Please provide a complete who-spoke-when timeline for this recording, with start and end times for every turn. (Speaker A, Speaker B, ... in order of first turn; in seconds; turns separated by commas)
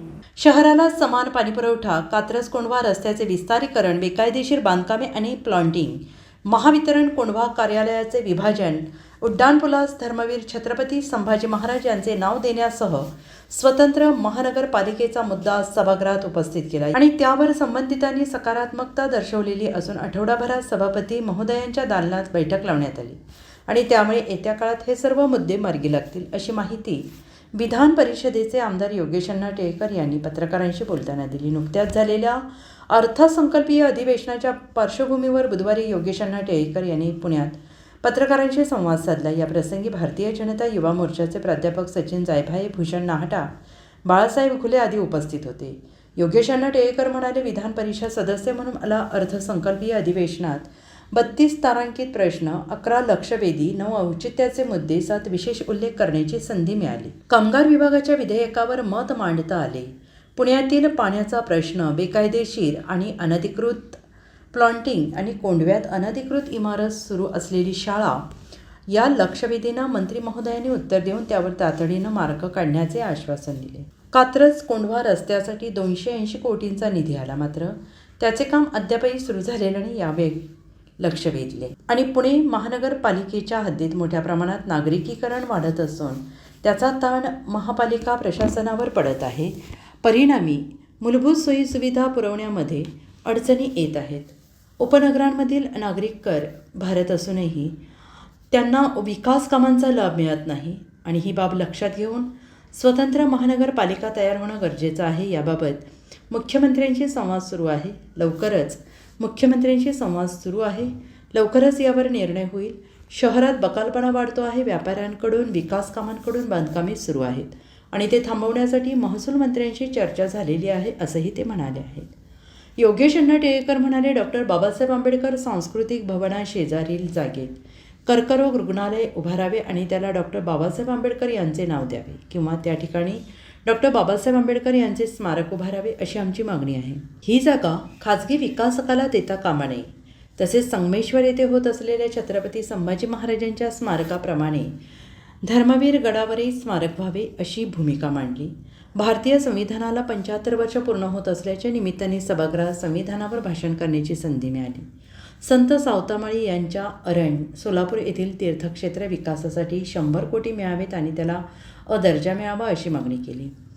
Speaker A: 0.4-43.5, Speaker A: 44.0-64.0, Speaker A: 64.5-68.3, Speaker A: 68.9-97.8, Speaker A: 98.5-122.1, Speaker A: 122.8-144.8, Speaker A: 145.4-154.9, Speaker A: 155.4-163.5